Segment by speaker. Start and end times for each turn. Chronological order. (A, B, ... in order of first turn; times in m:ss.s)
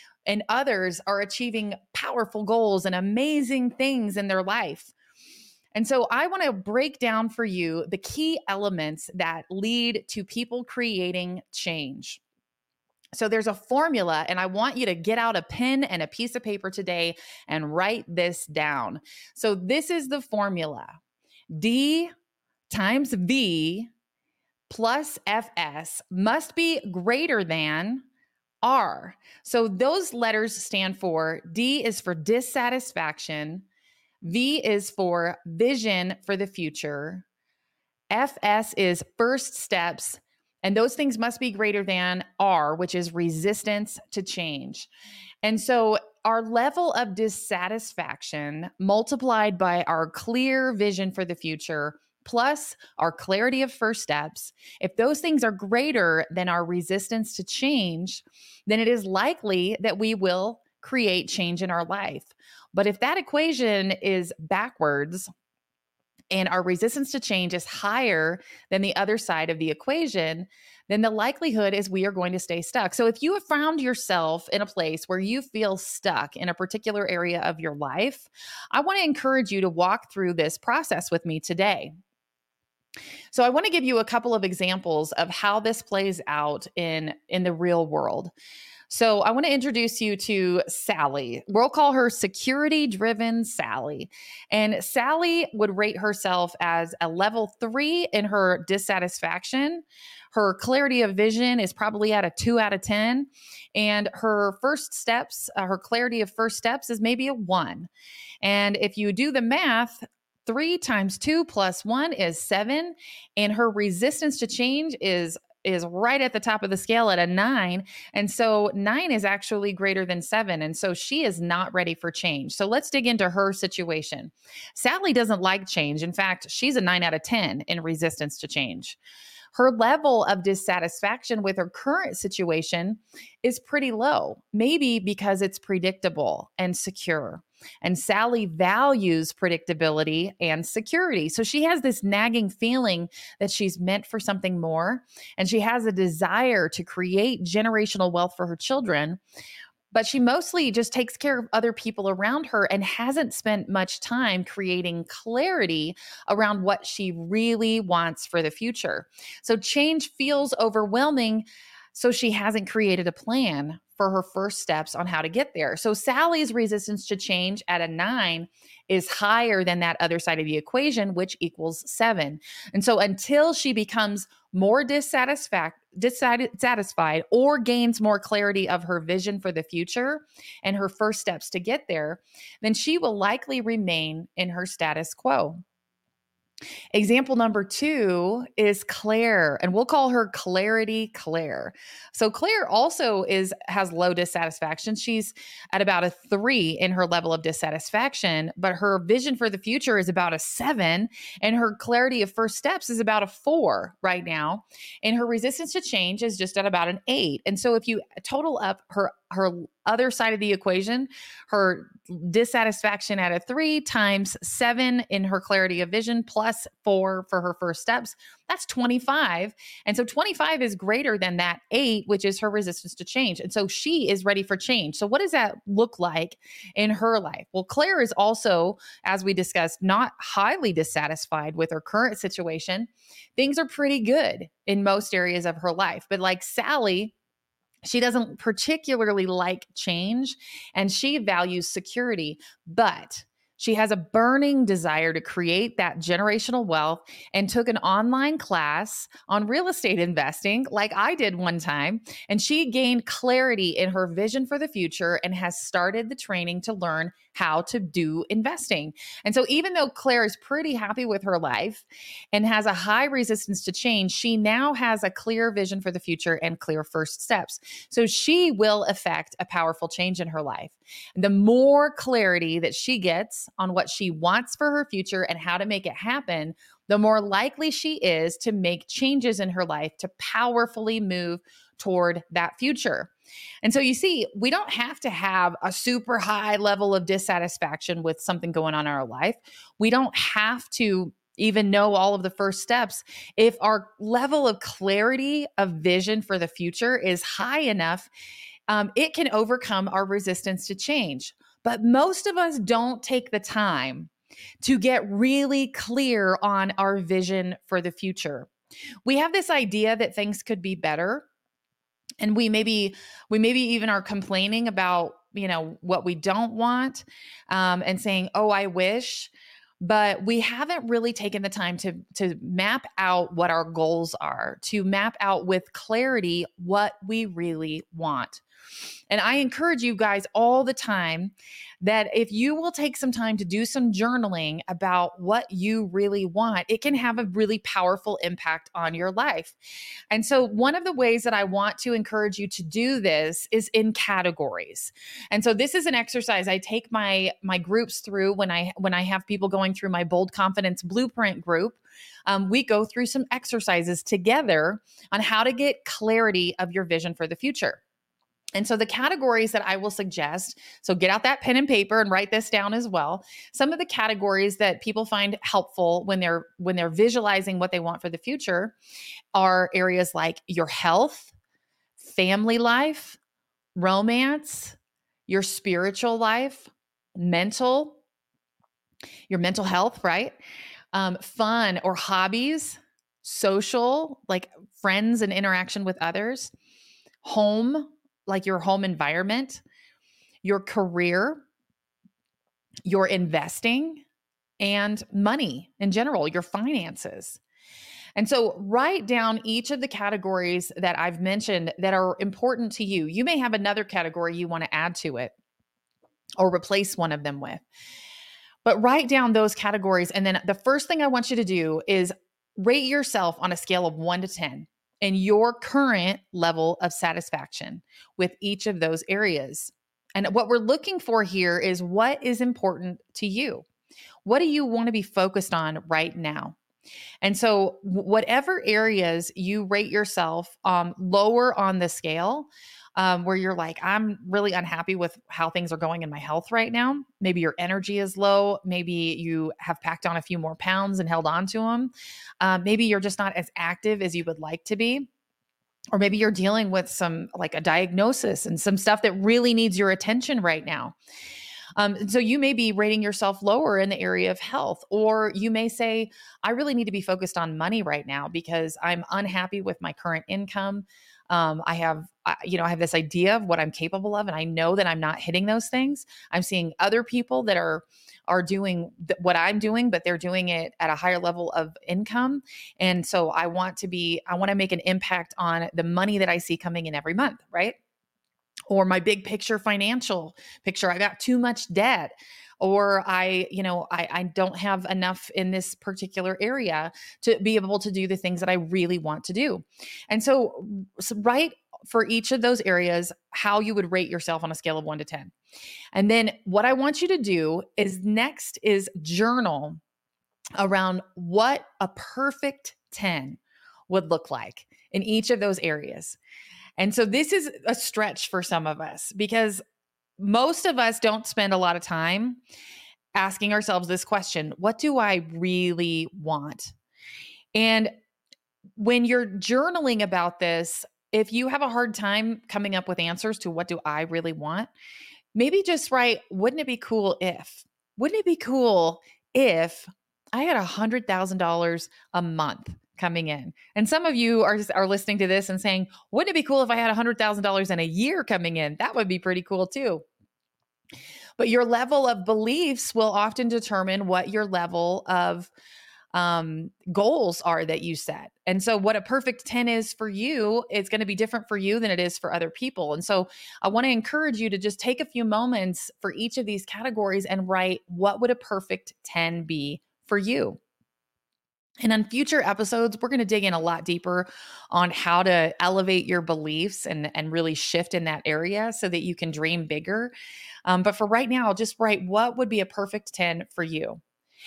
0:00.3-0:04.9 A
0:05.7-0:12.2 A
0:13.1-0:21.0 A
0:21.5-0:22.1 A
0:22.7-0:23.9 A
0:24.7-0:28.0 A
0:28.6-0:33.7 A
0:34.2-0:37.3 A
0:38.1-0:44.9 A
0:45.4-1:05.3 A
1:06.3-1:21.9 A
1:23.3-1:28.3 A
1:28.9-1:47.9 A
1:48.4-2:09.0 A
2:09.5-2:29.2 A
2:29.9-3:05.6 A
3:06.9-3:57.1 A
3:57.8-4:43.1 A
4:43.6-4:58.1 A
4:58.7-5:04.1 A
5:04.6-5:08.5 A
5:09.0-5:11.3 A
5:12.2-5:28.4 A
5:29.1-5:39.6 A
5:40.1-5:57.8 A
5:58.6-6:08.8 A
6:09.3-6:11.3 A
6:12.0-6:13.2 A
6:13.8-6:14.8 A
6:15.3-6:18.0 A
6:19.3-6:20.4 A
6:20.9-6:26.5 A
6:27.2-6:29.6 A
6:30.4-6:31.4 A
6:32.8-6:34.0 A
6:34.6-6:37.4 A
6:38.2-6:45.3 A
6:46.4-6:47.6 A
6:48.6-7:03.6 A
7:04.2-7:06.6 A
7:07.2-7:25.1 A
7:25.9-7:30.9 A
7:31.8-7:57.8 A
7:58.7-8:15.3 A
8:15.9-8:19.8 A
8:20.6-8:26.2 A
8:26.8-8:29.6 A
8:30.2-8:32.4 A
8:33.1-8:36.7 A
8:37.5-8:37.9 A
8:38.8-8:44.7 A
8:45.3-9:00.0 A
9:01.4-9:05.5 A
9:06.1-9:20.6 A
9:21.8-9:30.1 A
9:30.6-9:34.0 A